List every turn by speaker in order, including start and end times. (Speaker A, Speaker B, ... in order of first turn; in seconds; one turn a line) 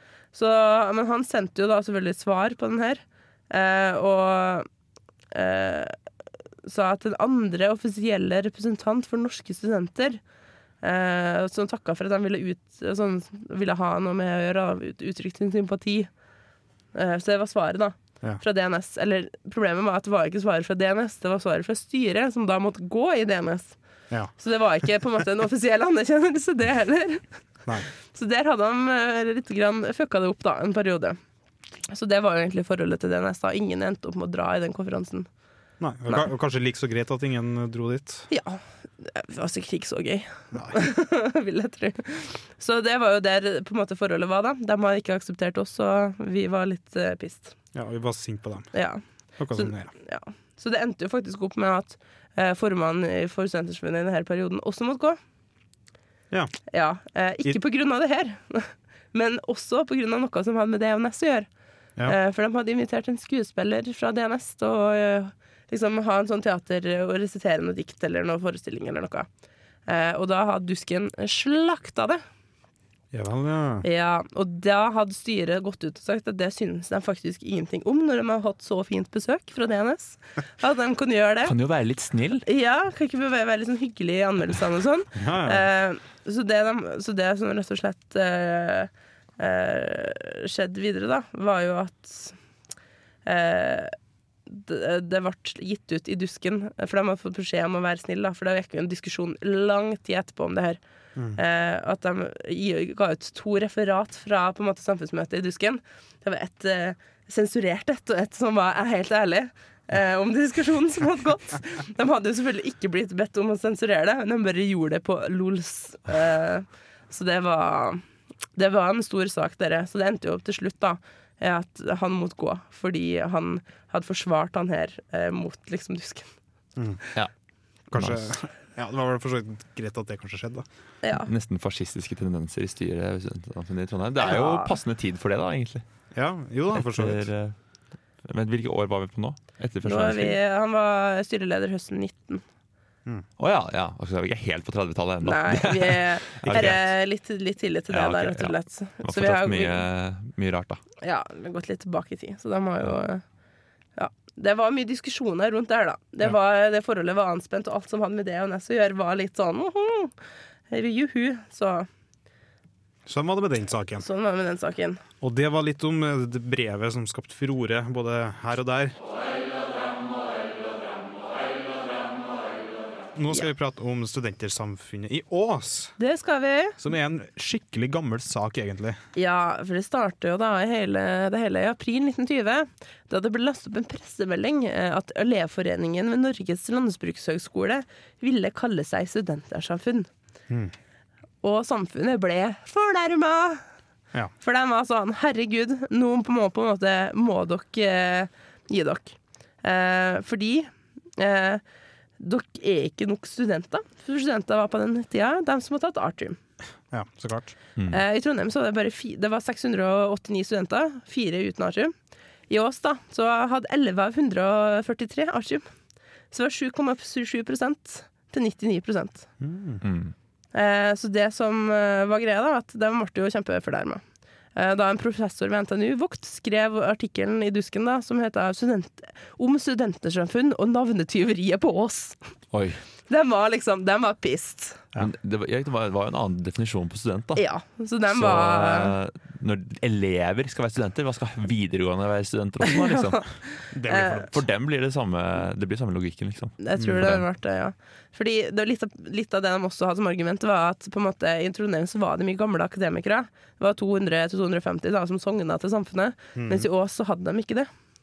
Speaker A: 0.3-4.7
Speaker A: 5.3-6.0
Speaker A: 6.6-10.2
Speaker A: 10.8-16.1
Speaker A: 16.9-23.8
Speaker A: 24.3-31.2
Speaker A: 31.9-35.3
Speaker B: 35.8-38.3
Speaker A: 38.3-47.5
Speaker B: 40.5-40.8
Speaker B: 47.7-49.9
Speaker A: 48.7-55.2
Speaker B: 56.3-56.6
Speaker A: 56.7-61.5
Speaker A: 62.0-69.3
Speaker A: 69.8-72.2
Speaker B: 73.1-73.8
Speaker A: 73.8-81.5
Speaker C: 81.5-82.4
Speaker A: 82.5-92.4
Speaker B: 85.2-85.7
Speaker A: 93.2-93.9
Speaker A: 94.5-100.8
Speaker A: 101.3-118.0
Speaker A: 118.5-126.3
Speaker B: 126.8-127.0
Speaker C: 127.8-128.4
Speaker B: 127.9-130.6
Speaker A: 131.0-131.3
Speaker C: 131.2-135.8
Speaker A: 134.2-134.7
Speaker B: 136.1-137.3
Speaker C: 136.7-137.6
Speaker C: 138.2-140.3
Speaker A: 139.8-142.4
Speaker C: 143.4-146.9
Speaker A: 145.2-149.8
Speaker C: 147.9-150.8
Speaker A: 151.0-153.3
Speaker A: 153.9-160.1
Speaker A: 160.7-161.9
Speaker B: 163.1-164.1
Speaker A: 164.0-165.0
Speaker B: 165.2-168.9
Speaker B: 173.1-176.0
Speaker A: 176.0-176.8
Speaker B: 176.8-179.0
Speaker A: 179.1-190.1
Speaker B: 190.5-190.7
Speaker A: 191.4-193.6
Speaker A: 194.4-201.6
Speaker A: 202.2-206.4
Speaker B: 206.9-207.6
Speaker C: 207.8-208.0
Speaker A: 207.9-211.9
Speaker A: 212.5-215.7
Speaker A: 216.3-219.3
Speaker B: 219.4-219.8
Speaker C: 219.8-220.1
Speaker A: 220.5-224.0
Speaker A: 224.5-232.2
Speaker C: 232.5-232.8
Speaker A: 233.1-234.8
Speaker C: 235.0-237.4
Speaker A: 237.3-238.9
Speaker C: 238.1-243.6
Speaker B: 243.7-244.3
Speaker A: 243.9-244.2
Speaker C: 244.3-247.2
Speaker A: 246.6-257.7
Speaker B: 246.8-247.1
Speaker B: 256.3-256.7